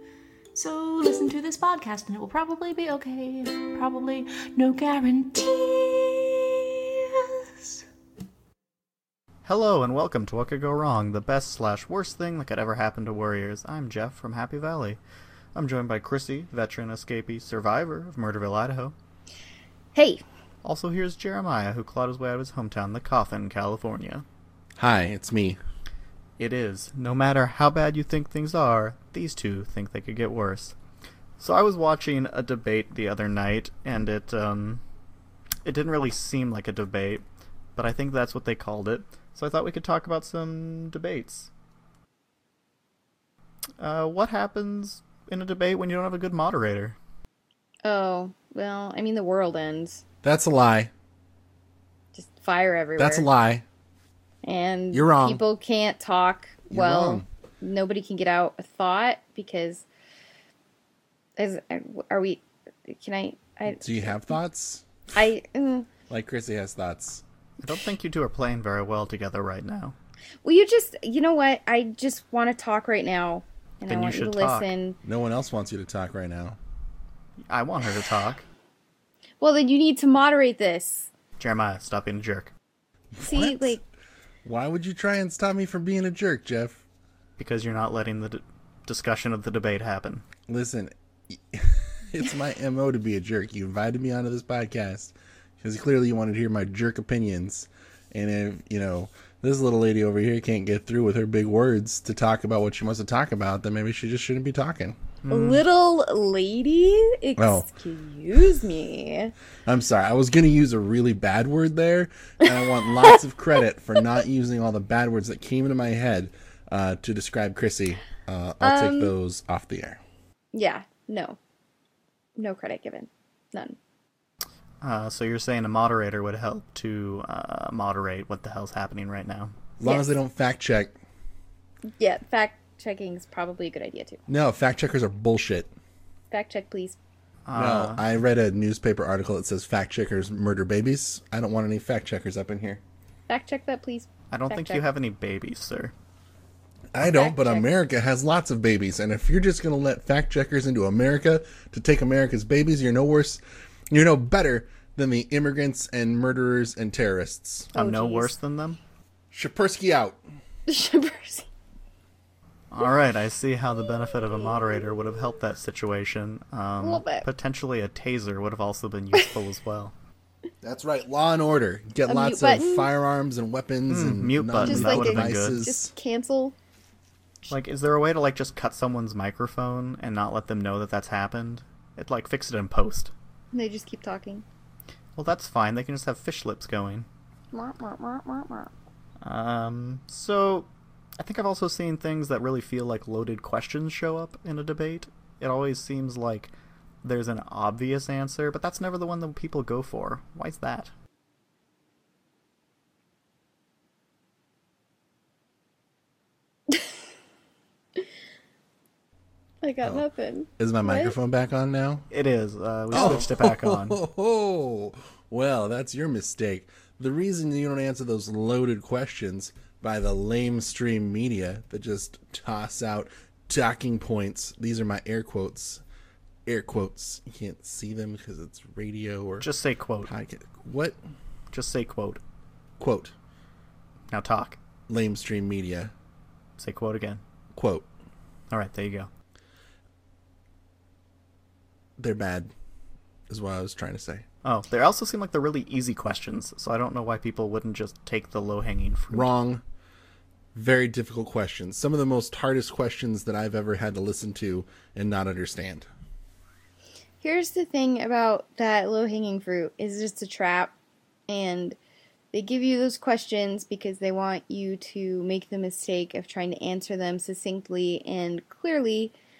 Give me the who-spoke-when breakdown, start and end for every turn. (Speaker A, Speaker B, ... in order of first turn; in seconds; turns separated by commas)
Speaker A: 0.5-7.8, Speaker B: 9.4-15.0, Speaker B: 15.5-18.9, Speaker C: 19.9-20.2, Speaker B: 20.6-24.2, Speaker D: 24.8-25.6, Speaker B: 26.4-30.7, Speaker B: 31.4-34.8, Speaker B: 35.6-37.2, Speaker B: 37.8-41.5, Speaker B: 43.8-47.0, Speaker C: 47.8-50.0, Speaker D: 50.2-50.9, Speaker C: 52.1-53.3, Speaker D: 53.0-53.6, Speaker C: 54.4-59.9, Speaker D: 54.9-55.4, Speaker D: 56.7-57.2, Speaker C: 61.4-64.3, Speaker D: 63.8-64.8, Speaker C: 65.1-65.9, Speaker D: 66.1-67.2, Speaker B: 67.6-69.9, Speaker C: 70.4-75.0, Speaker B: 73.8-74.7, Speaker D: 75.0-76.6, Speaker B: 77.5-78.4, Speaker C: 79.4-81.1, Speaker B: 81.4-82.5, Speaker D: 83.1-83.8, Speaker C: 83.2-83.8, Speaker D: 84.4-86.8, Speaker B: 87.4-90.2, Speaker D: 90.5-105.0, Speaker B: 105.2-105.6, Speaker C: 105.3-109.3, Speaker D: 107.4-107.7, Speaker D: 109.7-120.0, Speaker C: 112.5-113.2, Speaker C: 118.6-119.1, Speaker C: 120.5-121.4, Speaker C: 122.3-123.8, Speaker B: 124.8-129.6, Speaker D: 129.8-130.9, Speaker C: 129.8-130.1, Speaker C: 132.0-134.2, Speaker D: 134.3-135.7, Speaker C: 136.3-137.0, Speaker B: 137.5-138.0, Speaker D: 137.5-142.8, Speaker C: 143.3-144.8, Speaker B: 144.3-145.9, Speaker D: 146.9-157.7, Speaker C: 147.0-147.7, Speaker B: 157.7-158.8, Speaker C: 157.7-158.3, Speaker D: 159.3-160.2, Speaker C: 160.7-161.5, Speaker B: 162.7-169.9, Speaker C: 166.8-167.2, Speaker D: 170.6-175.9, Speaker C: 172.0-172.9, Speaker B: 173.9-175.6, Speaker C: 174.6-176.6, Speaker B: 177.5-183.1, Speaker C: 183.5-184.4, Speaker B: 185.2-187.1, Speaker C: 187.5-188.7, Speaker B: 189.2-196.5, Speaker B: 197.0-200.9, Speaker C: 209.6-211.2, Speaker D: 210.6-212.1, Speaker B: 212.1-214.0, Speaker D: 212.9-225.8, Speaker C: 212.9-213.2, Speaker D: 226.4-229.5, Speaker B: 229.4-230.1, Speaker D: 230.0-231.0, Speaker B: 231.5-232.2, Speaker D: 232.8-233.1, Speaker B: 234.1-234.6, Speaker D: 234.9-235.9, Speaker B: 236.6-237.2, Speaker D: 237.5-237.9, Speaker B: 238.5-239.1, Speaker D: 242.0-242.5, Speaker D: 243.3-244.2, Speaker B: 244.4-249.3, Speaker D: 249.1-249.6, Speaker D: 250.5-255.9, Speaker C: 257.2-260.7, Speaker C: 261.3-261.8, Speaker C: 262.3-269.1